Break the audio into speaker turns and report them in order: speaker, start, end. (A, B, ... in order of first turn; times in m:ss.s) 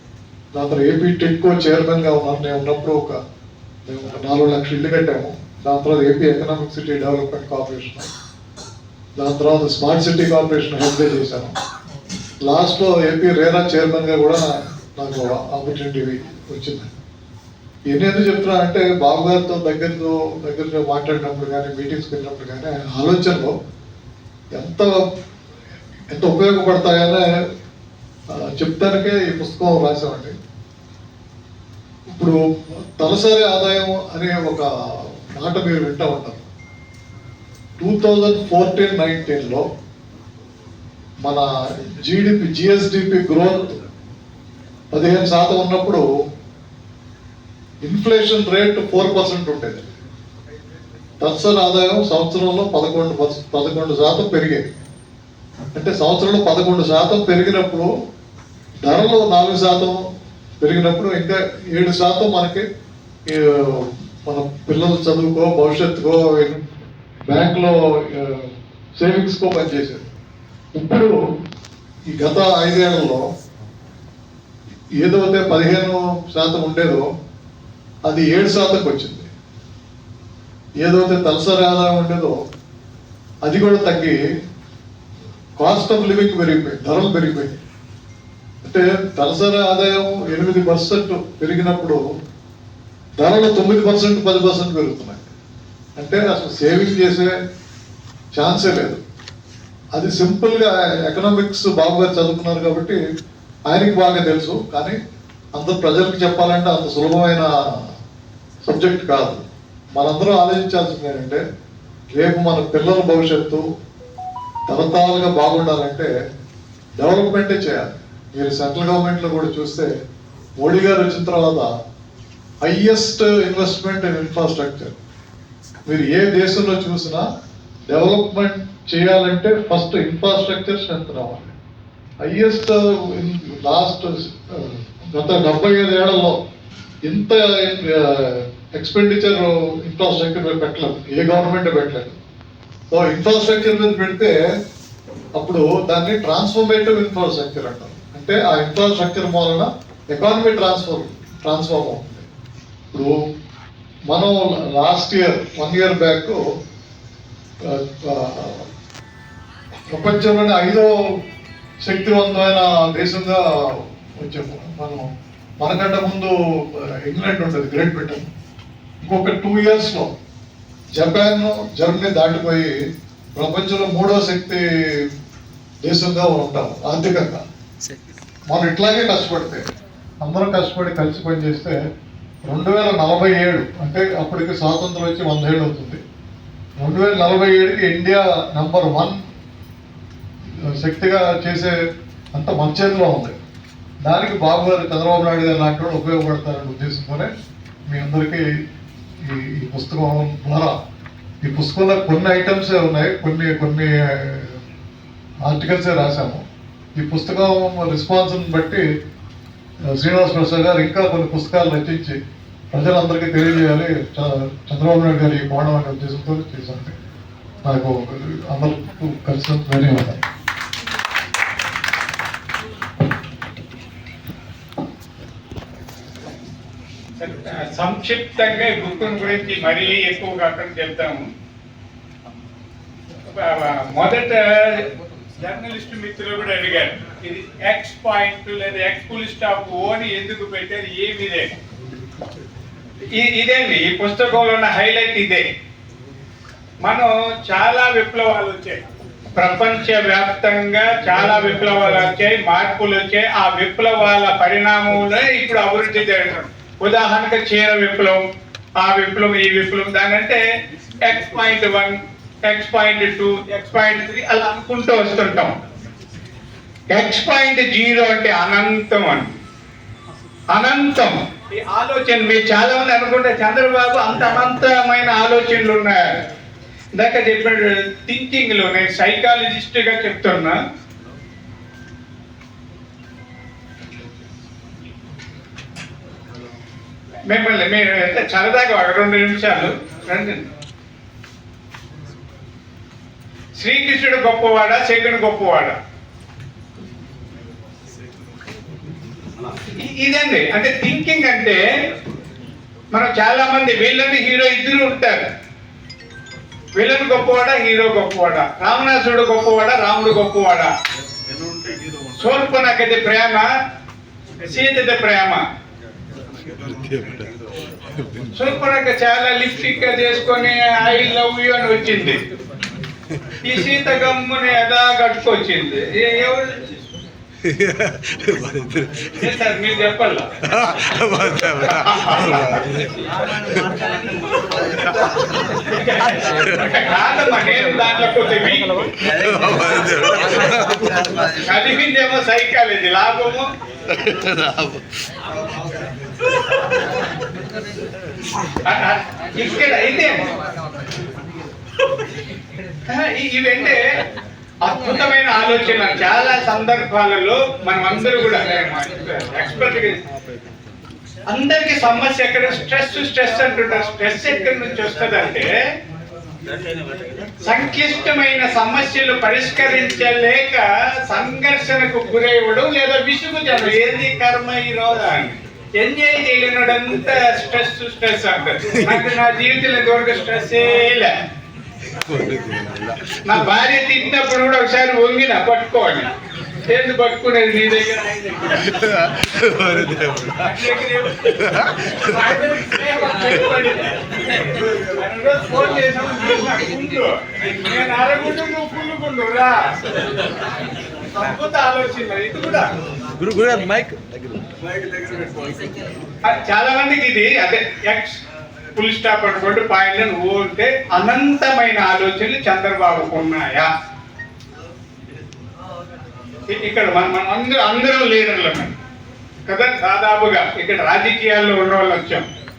0:00.5-0:03.2 A
0:03.9-0:08.1 A
0:09.2-0:11.5 A
0:12.4-0:16.9 A
0:17.9-0:23.5 A
0:24.5-0:25.0 A
0:26.1-0:27.3 A
0:28.4-0:30.3 A
0:32.1-0:32.4 A
0:33.0-0:34.6 A
0:35.3-0:36.5 A
0:37.8-0:39.6 A
0:41.2-0:43.8 A
0:44.9-0:46.0 A
0:47.8-0:49.8 A
0:51.2-0:54.7 A
0:55.7-0:57.9 A
0:58.8-1:00.0 A
1:00.6-1:02.6 A
1:03.3-1:06.6 A
1:07.3-1:10.1 A
1:10.7-1:11.1 A
1:12.1-1:13.2 A
1:15.0-1:17.0 A
1:18.1-1:19.3 A
1:20.8-1:22.4 A
1:23.4-1:24.2 A
1:25.6-1:27.6 A
1:28.6-1:32.0 A
1:33.2-1:35.3 A
1:36.0-1:37.3 A
1:38.3-1:39.0 A
1:39.9-1:43.0 A
1:43.7-1:45.0 A
1:45.5-1:47.5 A
1:48.6-1:49.4 A
1:49.9-1:51.4 A
1:52.1-1:53.6 A
1:54.7-1:56.1 A
1:57.0-1:59.9 A
2:00.6-2:01.7 A
2:02.6-2:05.0 A
2:05.9-2:07.2 A
2:07.9-2:11.5 A
2:12.2-2:16.4 A
2:17.0-2:22.2 A
2:22.9-2:24.4 A
2:25.4-2:32.3 A
2:34.1-2:36.4 A
2:37.6-2:38.6 A
2:39.9-2:40.9 A
2:41.8-2:48.3 A
2:49.0-2:50.1 A
2:50.9-2:52.8 A
2:53.4-2:55.1 A
2:55.8-2:57.4 A
2:58.5-2:59.7 A
3:00.2-3:01.8 A
3:02.5-3:06.0 A
3:06.8-3:09.2 A
3:10.6-3:11.8 A
3:12.3-3:13.3 A
3:14.0-3:17.3 A
3:17.9-3:18.4 A
3:19.2-3:20.8 A
3:21.4-3:24.6 A
3:25.4-3:26.4 A
3:27.0-3:28.8 A
3:29.9-3:32.2 A
3:32.7-3:36.9 A
3:37.6-3:40.2 A
3:47.2-3:51.3 B
3:53.3-3:54.9 B
3:55.4-4:01.5 B
4:03.1-4:05.4 B
4:06.8-4:08.8 B
4:09.4-4:18.2 B
4:18.8-4:20.4 B
4:21.0-4:25.6 B
4:26.9-4:29.3 B
4:30.5-4:36.0 B
4:37.0-4:40.6 B
4:47.3-4:50.4 B
4:53.6-4:55.7 B
4:59.8-5:01.6 B
5:02.9-5:05.2 B
5:06.8-5:10.7 B
5:12.2-5:13.4 B
5:14.4-5:15.4 B
5:16.6-5:17.3 C
5:18.3-5:22.2 B
5:23.4-5:26.6 B
5:27.5-5:29.1 C
5:29.2-5:30.3 B
5:30.6-5:32.7 C
5:31.7-5:32.6 B
5:35.6-5:38.9 B
5:39.2-5:41.1 C
5:41.4-5:43.5 B
5:44.0-5:44.8 C
5:48.6-5:50.3 B
5:52.9-5:53.8 B
5:54.6-6:00.0 B
6:01.3-6:05.5 B
6:07.4-6:21.1 B
6:22.1-6:23.1 C
6:23.2-6:26.1 B
6:26.7-6:28.7 B
6:29.2-6:30.4 C
6:30.4-6:39.7 B
6:41.2-6:42.7 B
6:43.2-6:44.0 C
6:46.2-6:48.2 B
6:48.8-6:53.7 B
6:56.5-6:58.7 B
6:59.4-7:02.2 B